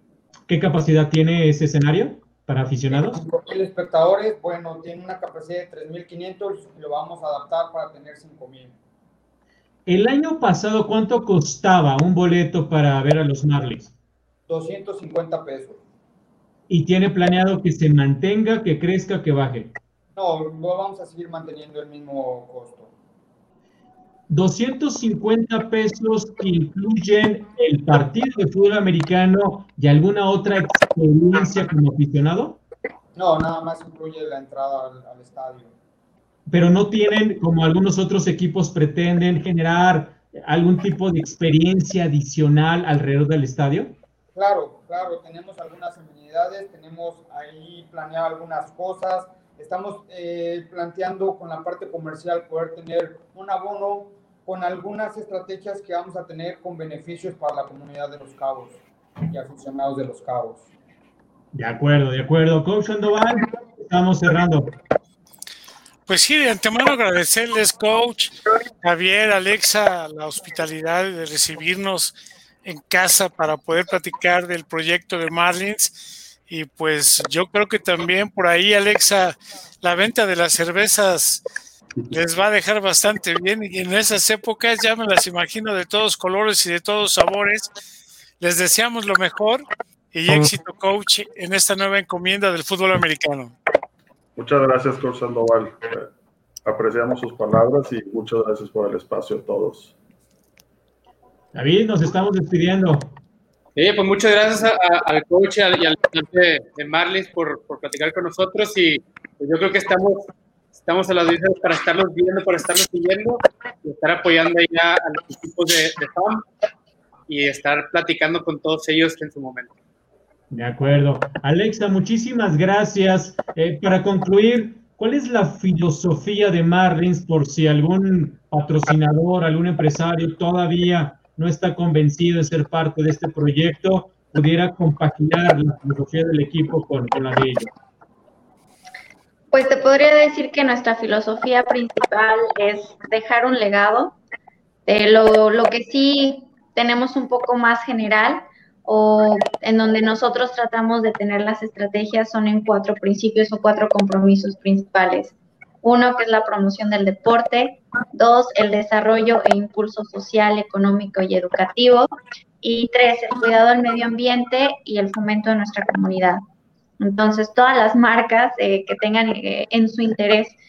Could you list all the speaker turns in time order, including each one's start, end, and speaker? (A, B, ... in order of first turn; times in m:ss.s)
0:00.5-0:03.2 A
0:02.9-0:08.8 B
0:09.8-0:13.9 A
0:14.5-0:15.8 B
0:16.7-0:19.8 A
0:20.1-0:22.9 B
0:24.3-0:32.6 A
0:33.2-0:35.7 B
0:36.5-0:44.0 A
0:44.3-1:00.7 B
1:01.5-1:04.7 A
1:06.0-1:21.4 C
1:22.1-1:27.7 C
1:28.4-1:33.5 C
1:34.4-1:36.1 D
1:36.6-1:39.9 D
1:41.5-1:43.2 A
1:43.8-1:56.4 E
1:57.3-1:59.7 E
2:00.5-2:17.7 A
2:19.5-2:24.2 F
2:24.9-2:46.4 F
2:47.0-2:50.5 F